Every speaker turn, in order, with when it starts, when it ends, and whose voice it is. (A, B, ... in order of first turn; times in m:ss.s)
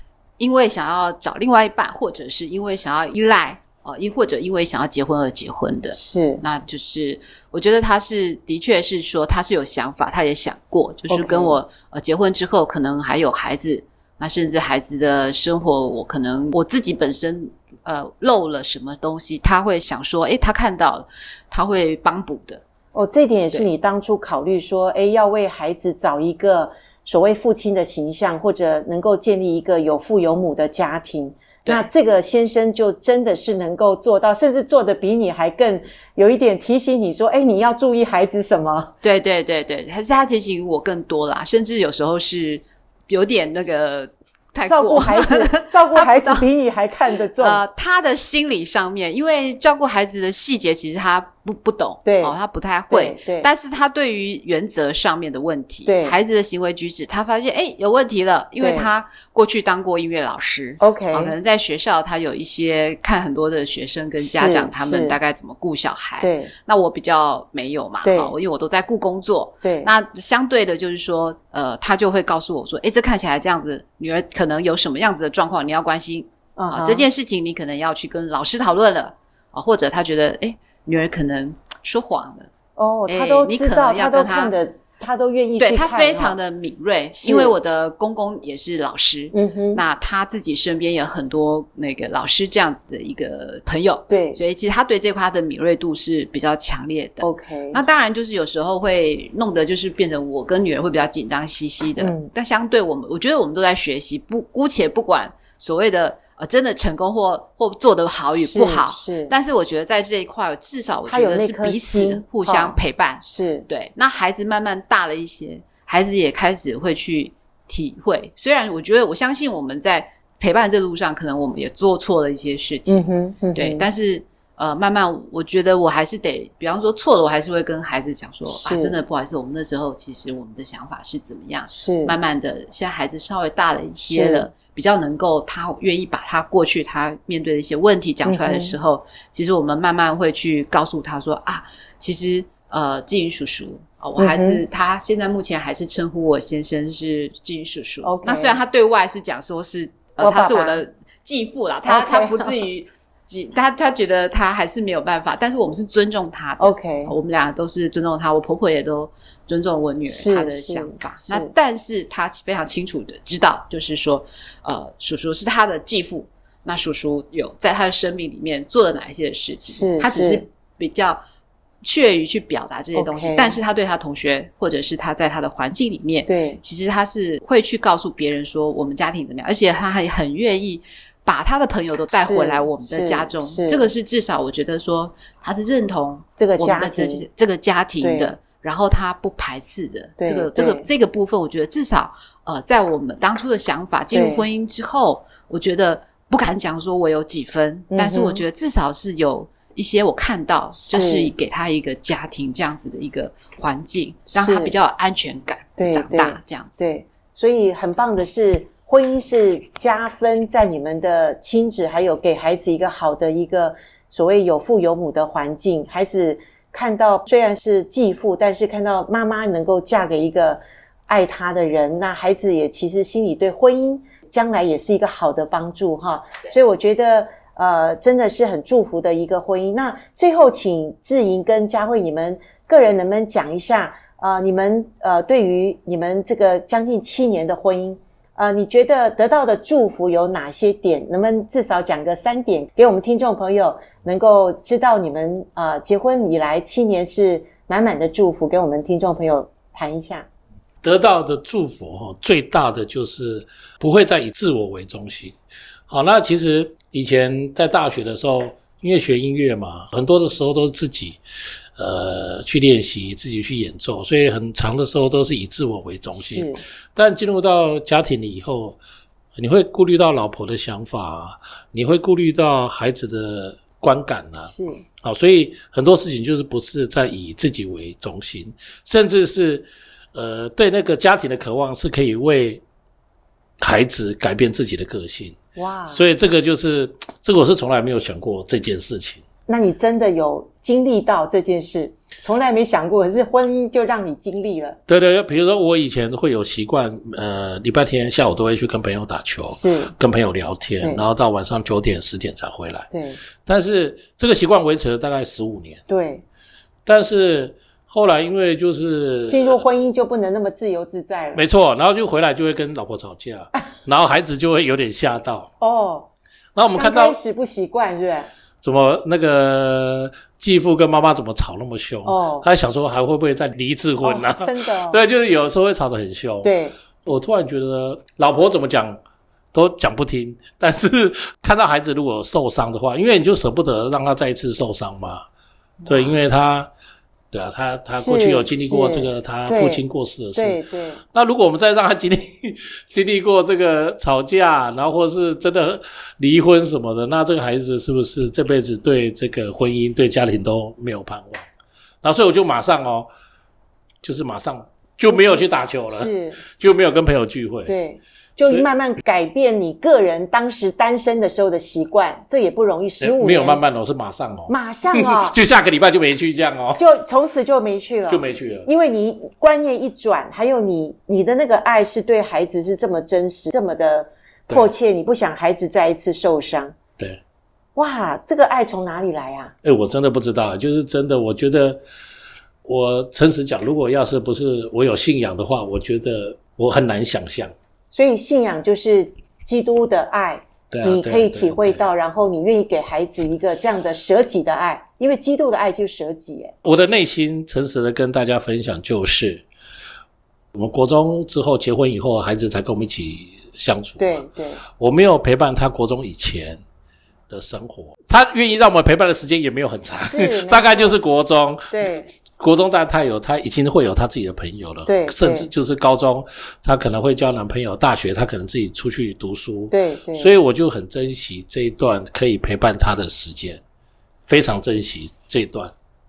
0:00.4-0:22.6 A
0:05.9-0:06.4 B
0:11.1-0:11.6 B
0:22.9-0:38.9 B
0:39.0-0:46.5 A
0:44.7-0:47.6 B
0:47.2-1:22.5 A
0:52.0-0:52.4 B
0:52.9-0:53.5 B
0:55.8-0:56.2 B
0:58.6-0:58.9 B
1:00.8-1:01.3 B
1:04.2-1:05.2 B
1:06.2-1:06.5 B
1:08.0-1:08.3 B
1:09.6-1:09.9 B
1:16.6-1:17.1 B
1:22.8-1:26.4 B
1:23.1-1:24.6 A
1:25.6-2:03.0 A
1:27.2-1:27.5 B
1:29.3-1:29.8 B
1:34.1-1:34.4 B
1:37.2-1:37.8 B
1:42.0-1:42.3 B
1:48.4-1:49.3 B
1:51.1-1:53.7 B
2:02.9-2:03.9 B
2:03.6-2:51.2 A
2:08.5-2:09.0 B
2:11.7-2:12.2 B
2:14.1-2:14.5 B
2:18.2-2:18.8 B
2:24.2-2:24.6 B
2:28.0-2:28.6 B
2:30.2-2:30.8 B
2:31.8-2:32.6 B
2:36.6-2:37.1 B
2:40.1-2:41.5 B
2:49.7-2:50.4 B
2:51.8-3:26.8 A
2:53.0-2:53.6 B
2:56.3-2:56.6 B
3:02.1-3:03.9 B
3:06.4-3:07.2 B
3:08.0-3:08.3 B
3:10.2-3:10.9 B
3:14.1-3:14.4 B
3:17.9-3:18.4 B
3:20.8-3:21.3 B
3:24.3-3:24.7 B
3:25.8-4:10.3 B
4:10.8-4:15.4 C
4:15.9-4:21.2 C
4:21.8-4:28.8 C
4:26.1-4:26.6 B
4:29.4-4:42.6 C
4:34.4-4:34.8 B
4:43.6-4:45.4 C
4:45.6-4:46.1 B
4:45.9-4:49.2 C
4:49.5-4:54.8 B
4:54.9-5:02.9 C
4:59.5-4:59.9 B
5:02.9-5:03.2 B
5:03.4-5:05.8 C
5:05.9-5:06.2 B
5:06.9-5:09.6 C
5:09.3-5:11.4 B
5:11.4-5:15.5 C
5:15.6-5:16.1 B
5:16.6-5:17.2 C
5:16.7-5:18.3 B
5:18.6-5:26.5 C
5:22.0-5:22.5 B
5:24.0-5:25.0 B
5:26.4-5:26.8 B
5:27.0-5:29.0 C
5:29.5-5:35.2 C
5:35.8-5:36.1 A
5:35.9-5:36.7 C
5:37.3-5:40.6 C
5:37.9-5:39.8 B
5:40.4-5:41.0 B
5:41.1-5:51.5 C
5:52.0-5:53.1 C
5:54.0-5:57.8 C
5:55.1-5:56.4 B
5:57.7-6:03.6 B
6:03.0-6:06.8 C
6:04.5-6:05.4 B
6:06.8-6:16.8 B
6:08.1-6:08.7 C
6:17.8-6:19.5 B
6:19.6-6:21.8 C
6:22.6-6:27.5 C
6:27.9-6:36.5 B
6:30.7-6:31.9 C
6:36.6-6:39.5 C
6:40.5-6:44.2 C
6:44.0-6:44.6 B
6:44.8-6:46.6 C
6:47.3-6:51.9 C
6:50.0-6:51.0 B
6:51.7-6:52.1 B
6:52.4-7:03.6 C
6:54.9-6:55.5 B
6:59.7-7:00.3 B
7:04.3-7:05.7 C